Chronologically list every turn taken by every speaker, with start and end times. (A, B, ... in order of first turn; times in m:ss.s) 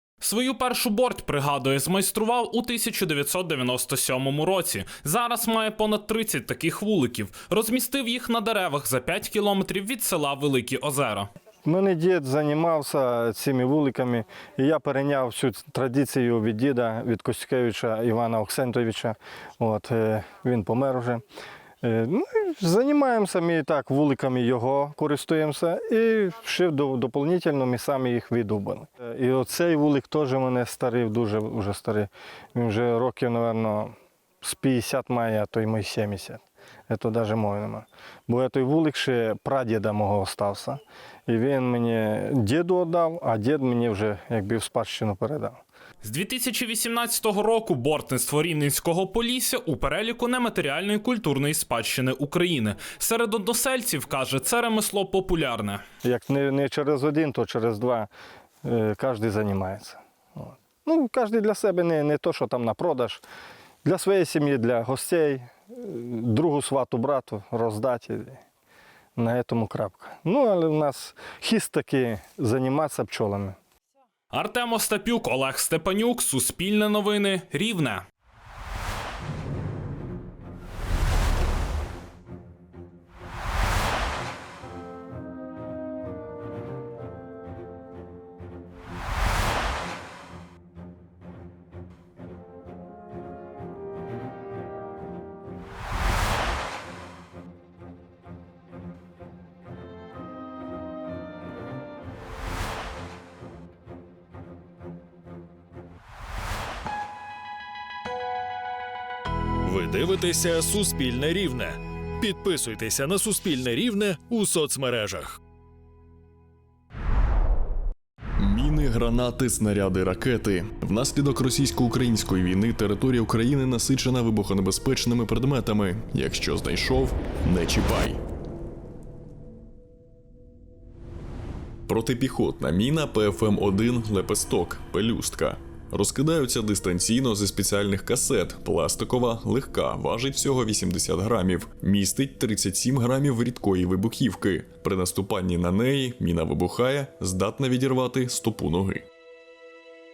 0:00.2-0:11.3 A
0:11.6-0:21.2 B
0:21.8-0:45.6 B
0:46.0-0:55.8 A
0:56.0-0:58.1 B
0:58.6-1:03.2 B
1:03.8-1:08.4 B
1:09.2-1:13.6 B
1:14.3-1:18.0 A
1:49.6-1:55.4 C
1:58.4-2:08.2 D
2:11.9-2:29.0 D